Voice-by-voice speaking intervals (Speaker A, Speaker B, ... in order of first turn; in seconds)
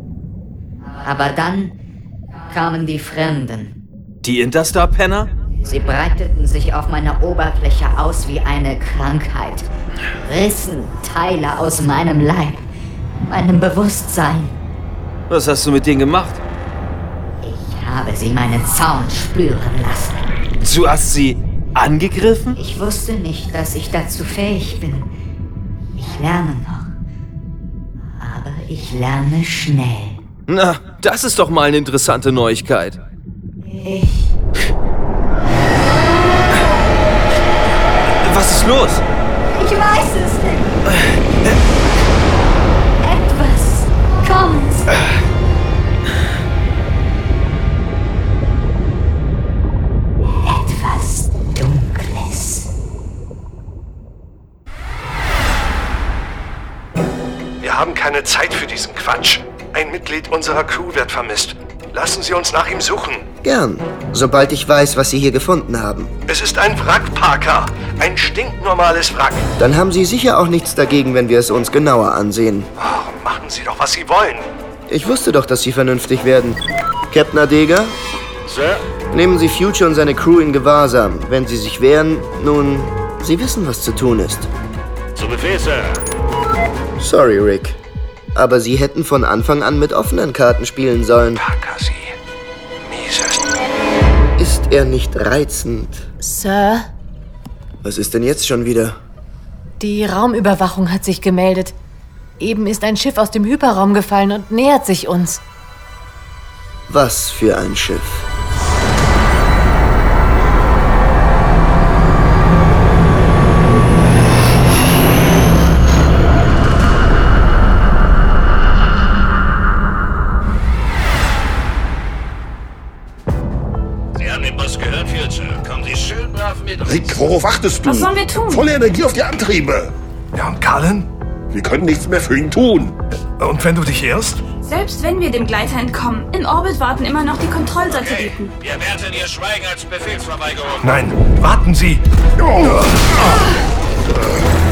Speaker A: 1.0-1.8, 2.5-3.8, 5.6-9.7, 10.2-12.7, 13.2-14.6, 17.4-20.3, 22.6-25.1, 26.0-26.9, 28.2-30.2, 33.7-34.3, 39.5-40.8, 43.0-44.9, 50.4-52.7
Speaker B: 4.2-5.3, 15.3-16.4, 20.6-22.6, 30.5-33.0, 38.2-39.0
Speaker C: 57.6-63.2, 66.3-69.5, 72.8-74.5, 91.4-92.2, 92.9-93.5, 130.3-131.1, 133.4-134.4, 140.8-142.0, 142.7-143.0
Speaker D: 63.4-66.1, 69.6-72.7, 74.9-76.6, 77.1-77.9, 79.1-84.5, 87.0-87.8, 88.3-91.4, 94.4-96.1, 97.8-99.0, 106.9-108.3
Speaker E: 78.5-78.8, 85.2-86.0, 124.2-127.0, 137.9-141.0
Speaker F: 96.2-96.9, 99.8-101.8, 102.4-105.4
Speaker G: 126.8-129.9, 131.5-133.0, 142.4-143.5
Speaker H: 127.8-128.7, 134.7-138.5